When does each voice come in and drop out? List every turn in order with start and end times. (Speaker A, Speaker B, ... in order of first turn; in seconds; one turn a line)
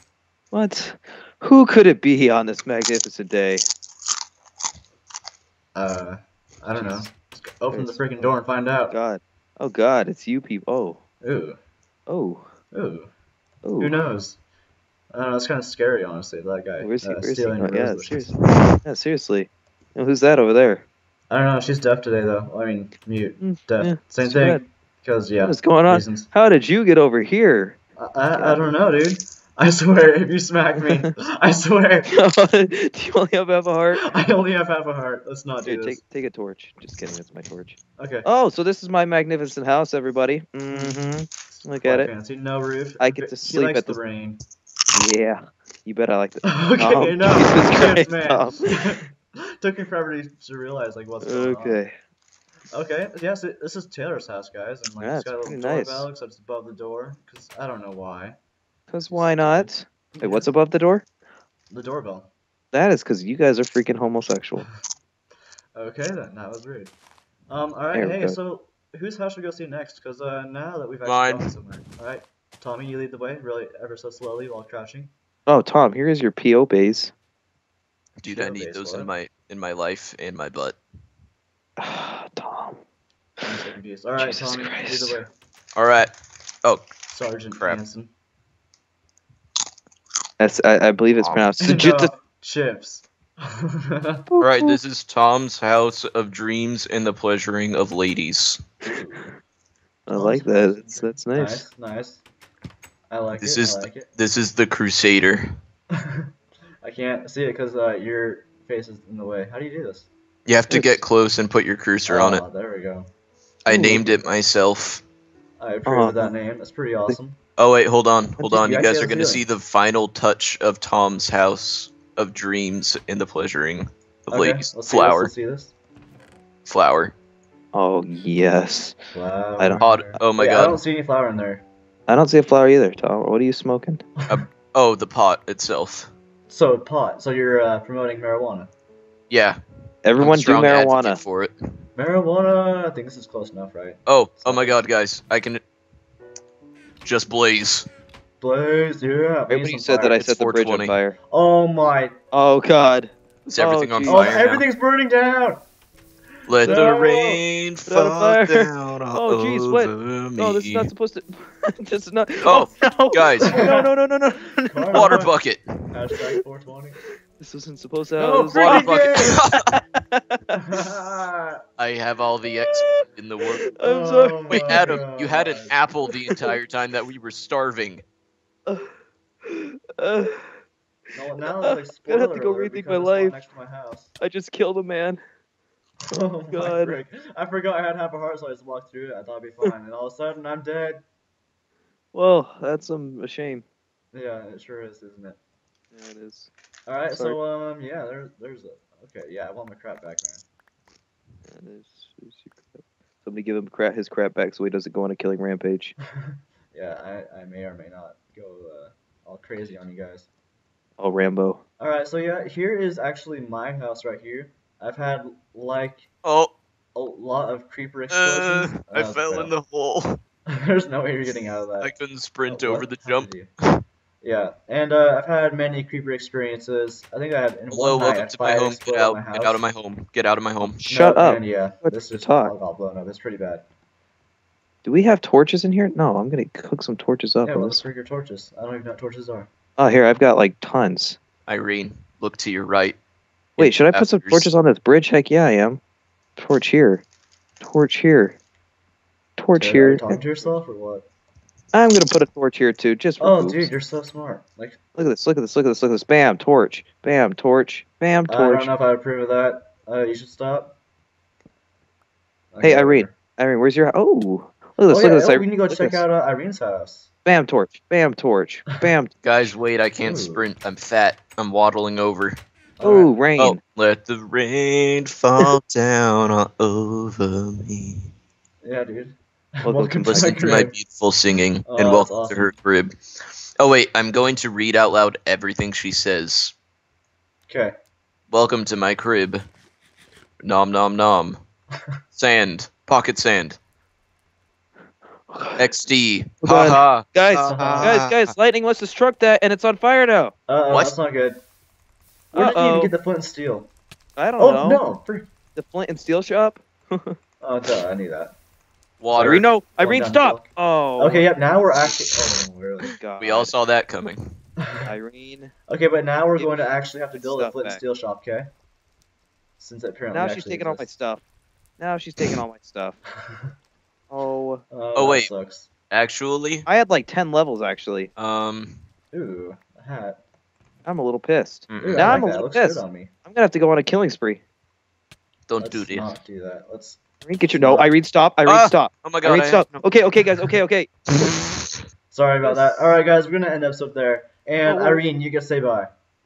Speaker A: 0.5-3.7
Speaker B: 5.8-8.9
Speaker A: 6.8-7.0
Speaker A: 7.7-8.1
Speaker A: 8.9-11.0
Speaker B: 11.2-11.6
Speaker A: 12.1-12.5
Speaker B: 12.7-13.1
Speaker A: 13.6-14.0
Speaker B: 13.8-14.4
Speaker B: 15.1-18.4
Speaker A: 16.8-20.9
Speaker B: 21.3-26.3
Speaker A: 23.4-24.6
Speaker A: 25.4-27.8
Speaker B: 28.0-32.1
Speaker A: 28.3-28.7
Speaker A: 32.1-34.1
Speaker B: 34.0-36.0
Speaker A: 35.6-42.1
Speaker B: 38.0-38.3
Speaker B: 40.7-44.4
Speaker A: 43.0-44.0
Speaker A: 45.0-48.7
Speaker B: 46.4-49.1
Speaker B: 49.6-51.8
Speaker A: 51.2-51.9
Speaker B: 52.7-58.4
Speaker A: 55.0-56.1
Speaker A: 58.9-61.1
Speaker B: 59.0-60.5
Speaker B: 61.7-62.3
Speaker A: 62.7-64.7
Speaker B: 65.8-66.9
Speaker B: 67.5-75.1
Speaker A: 67.9-68.4
Speaker C: 71.0-71.5
Speaker A: 75.5-77.1
Speaker C: 78.2-80.8
Speaker B: 78.3-79.1
Speaker A: 81.8-82.8
Speaker B: 83.4-85.3
Speaker A: 84.2-85.2
Speaker C: 85.8-86.1
Speaker B: 87.1-88.1
Speaker C: 87.6-87.8
Speaker A: 90.4-92.1
Speaker C: 91.2-91.4
Speaker B: 91.6-94.3
Speaker A: 94.3-94.8
Speaker C: 94.4-98.6
Speaker B: 98.8-99.3
Speaker A: 100.1-101.7
Speaker B: 100.1-102.2
Speaker B: 103.1-104.1
Speaker C: 103.4-105.5
Speaker B: 106.0-106.3
Speaker B: 106.8-110.1
Speaker C: 110.5-112.4
Speaker A: 110.7-111.0
Speaker B: 112.1-113.1
Speaker C: 113.7-115.0
Speaker A: 113.7-114.0
Speaker B: 113.8-114.2
Speaker B: 115.6-117.4
Speaker A: 115.9-116.3
Speaker C: 117.6-125.3
Speaker B: 118.4-119.5
Speaker B: 124.3-125.8
Speaker C: 126.7-127.1
Speaker A: 127.7-129.0
Speaker B: 129.2-131.6
Speaker A: 129.6-130.2
Speaker C: 129.8-130.8
Speaker A: 132.1-134.1
Speaker C: 134.3-136.1
Speaker B: 136.5-138.7
Speaker C: 139.3-139.6
Speaker A: 140.1-141.2
Speaker C: 140.2-141.6
Speaker B: 142.0-144.9
Speaker C: 144.1-145.6
Speaker C: 147.0-147.9
Speaker B: 148.4-150.2
Speaker A: 149.5-151.2
Speaker C: 150.1-150.9
Speaker B: 151.3-152.2
Speaker A: 152.3-154.3
Speaker C: 153.5-154.7
Speaker B: 154.1-155.6
Speaker C: 156.5-160.9
Speaker B: 156.6-157.4
Speaker A: 157.9-165.2
Speaker C: 162.4-163.5
Speaker B: 163.4-163.9
Speaker B: 164.7-165.3
Speaker C: 164.9-165.9
Speaker B: 165.9-167.0
Speaker A: 167.4-170.6
Speaker B: 168.2-169.5
Speaker C: 168.5-169.8
Speaker B: 170.6-171.6
Speaker C: 171.8-173.7
Speaker A: 173.6-175.0
Speaker B: 173.8-175.8
Speaker C: 174.5-178.0
Speaker A: 176.1-176.5
Speaker A: 179.5-180.6
Speaker B: 181.1-184.1
Speaker A: 181.6-183.4
Speaker A: 184.2-185.2
Speaker B: 186.1-191.0
Speaker A: 186.5-186.9
Speaker A: 192.1-193.6
Speaker B: 194.1-195.4
Speaker A: 195.9-196.5
Speaker B: 196.9-200.4
Speaker A: 197.1-197.4
Speaker A: 201.5-205.9
Speaker B: 206.2-210.3
Speaker A: 211.0-211.6
Speaker B: 211.8-216.1
Speaker C: 216.2-216.6
Speaker B: 216.9-219.5
Speaker C: 218.1-220.2
Speaker B: 220.5-221.9
Speaker C: 221.8-223.4
Speaker B: 222.5-223.5
Speaker B: 224.2-229.7
Speaker C: 227.7-230.8
Speaker A: 230.8-232.6
Speaker B: 230.9-233.7
Speaker A: 234.8-237.8
Speaker B: 237.4-239.5
Speaker A: 239.8-241.2
Speaker C: 241.5-243.0
Speaker A: 243.6-245.8
Speaker C: 243.6-244.5
Speaker A: 246.4-247.0
Speaker A: 247.6-248.4
Speaker A: 249.4-250.5
Speaker B: 249.6-251.1
Speaker A: 251.7-253.7
Speaker B: 253.2-254.8
Speaker A: 254.9-258.7
Speaker B: 258.3-260.8
Speaker B: 262.5-263.2
Speaker A: 262.6-266.0
Speaker B: 264.9-267.1
Speaker A: 267.2-269.2
Speaker C: 269.2-272.4
Speaker B: 270.0-270.5
Speaker B: 272.8-273.1
Speaker A: 272.8-273.6
Speaker C: 273.4-278.0
Speaker B: 278.6-280.7
Speaker A: 279.6-280.4
Speaker C: 280.0-282.9
Speaker B: 281.7-282.5
Speaker C: 283.6-286.6
Speaker B: 287.5-287.7
Speaker C: 288.3-289.4
Speaker C: 290.4-291.4
Speaker C: 292.1-293.6
Speaker A: 295.3-295.7
Speaker C: 295.6-298.3
Speaker A: 296.4-300.4
Speaker B: 297.5-298.0
Speaker B: 300.5-301.4
Speaker A: 302.3-302.9
Speaker B: 302.3-303.7
Speaker A: 304.2-304.8
Speaker B: 304.4-305.3
Speaker A: 305.6-307.2
Speaker B: 307.4-308.3
Speaker C: 309.0-309.5
Speaker B: 309.1-313.0
Speaker A: 309.2-311.9
Speaker A: 312.9-313.5
Speaker C: 313.2-314.4
Speaker B: 314.6-314.9
Speaker A: 314.9-315.5
Speaker B: 315.7-318.5
Speaker A: 316.4-317.8
Speaker B: 319.6-320.9
Speaker A: 320.1-321.2
Speaker A: 321.8-323.0
Speaker B: 323.2-323.5
Speaker A: 324.1-324.6
Speaker B: 324.7-325.7
Speaker C: 324.9-325.3
Speaker C: 325.9-326.7
Speaker A: 326.7-328.1
Speaker C: 328.2-328.8
Speaker B: 329.1-330.2
Speaker A: 330.9-334.4
Speaker C: 331.7-332.2
Speaker B: 331.8-333.1
Speaker C: 335.5-336.1
Speaker B: 335.6-337.0
Speaker A: 337.2-340.9
Speaker B: 337.5-337.9
Speaker C: 338.5-339.7
Speaker C: 341.2-341.5
Speaker B: 342.1-345.9
Speaker A: 342.4-342.8
Speaker A: 344.6-345.0